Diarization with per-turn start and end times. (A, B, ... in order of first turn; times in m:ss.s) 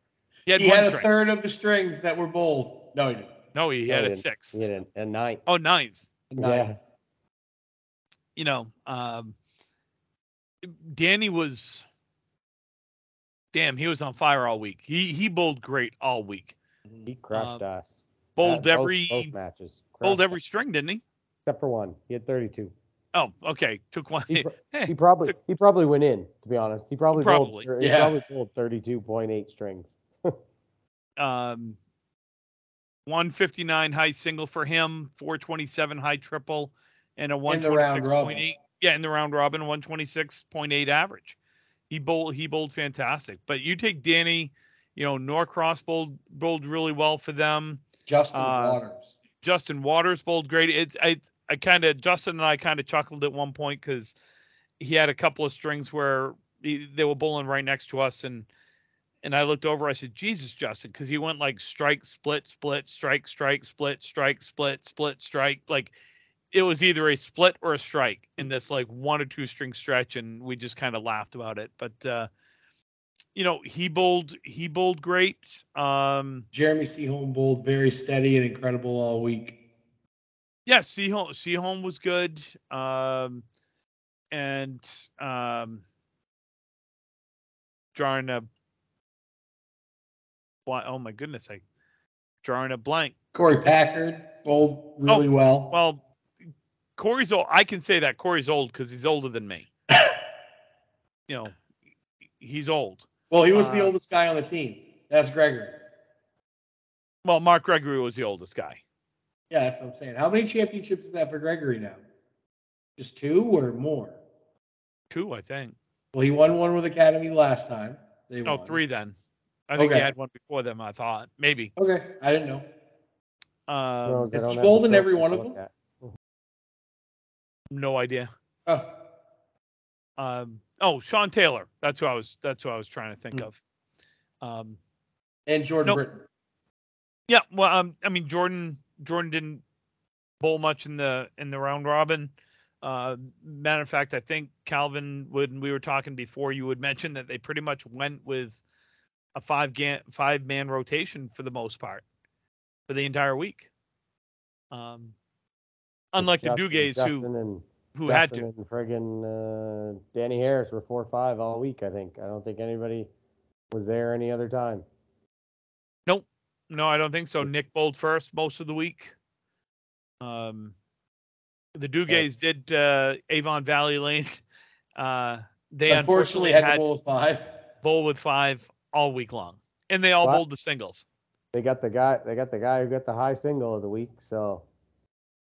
0:00.5-0:01.1 A
0:00.6-0:03.3 B
0:03.5-0:04.6 A
0:03.9-0:05.4 C
0:05.4-0:06.0 A
0:06.3-0:06.7 B
0:06.4-0:06.8 C
0:08.4-0:09.4 A
0:10.6-0:11.8 A
0:13.5-0:16.5 A
0:17.0-0:20.3 C
0:17.3-0:17.6 A
0:18.4-0:19.3 A
0:20.0-0:21.0 A
0:21.4-0:22.7 C
0:23.1-0:25.3 A
0:24.3-0:30.4 C
0:27.1-0:27.7 A
0:27.8-0:28.1 B
0:31.2-0:31.8 A
0:33.0-0:41.4 A
0:37.4-0:38.4 B
0:41.9-0:48.8 A
0:48.1-0:49.1 B
0:49.4-0:54.1 A
0:54.8-0:58.5 A
0:59.2-1:05.9 A
1:06.5-1:12.3 A
1:13.3-1:16.4 A
1:16.5-1:19.6 B
1:20.7-1:23.4 A
1:24.3-1:25.8 A
1:27.9-1:28.5 A
1:30.6-1:31.6 A
1:32.4-1:33.1 A
1:33.3-1:35.7 B
1:35.1-1:36.0 A
1:37.0-1:39.7 A
1:41.3-1:41.6 A
1:42.4-1:43.9 A
1:43.3-1:45.8 B
1:47.2-1:48.8 A
1:49.5-1:52.0 B
1:53.0-1:54.2 B
1:55.1-1:55.8 A
1:56.1-1:58.8 B
1:58.4-1:59.1 A
1:59.7-2:01.7 A
1:59.8-2:00.1 B
2:01.8-2:02.6 B
2:03.7-2:04.4 A
2:04.0-2:06.1 C
2:04.3-2:05.6 B
2:07.7-2:08.3 A
2:10.2-2:13.6 A
2:14.4-2:14.8 A
2:15.5-2:16.2 B
2:17.3-2:19.6 A
2:20.4-2:28.6 A
2:29.3-2:32.0 A
2:32.9-2:33.7 A
2:34.7-2:35.1 A
2:36.1-2:37.3 A
2:36.2-2:43.1 C
2:37.9-2:38.5 A
2:43.7-2:44.8 C
2:46.1-2:49.1 A
2:50.2-2:50.7 A
2:51.8-2:54.4 A
2:55.0-2:56.8 A
2:55.9-2:57.4 B
2:57.8-3:01.0 A
3:01.5-3:04.6 C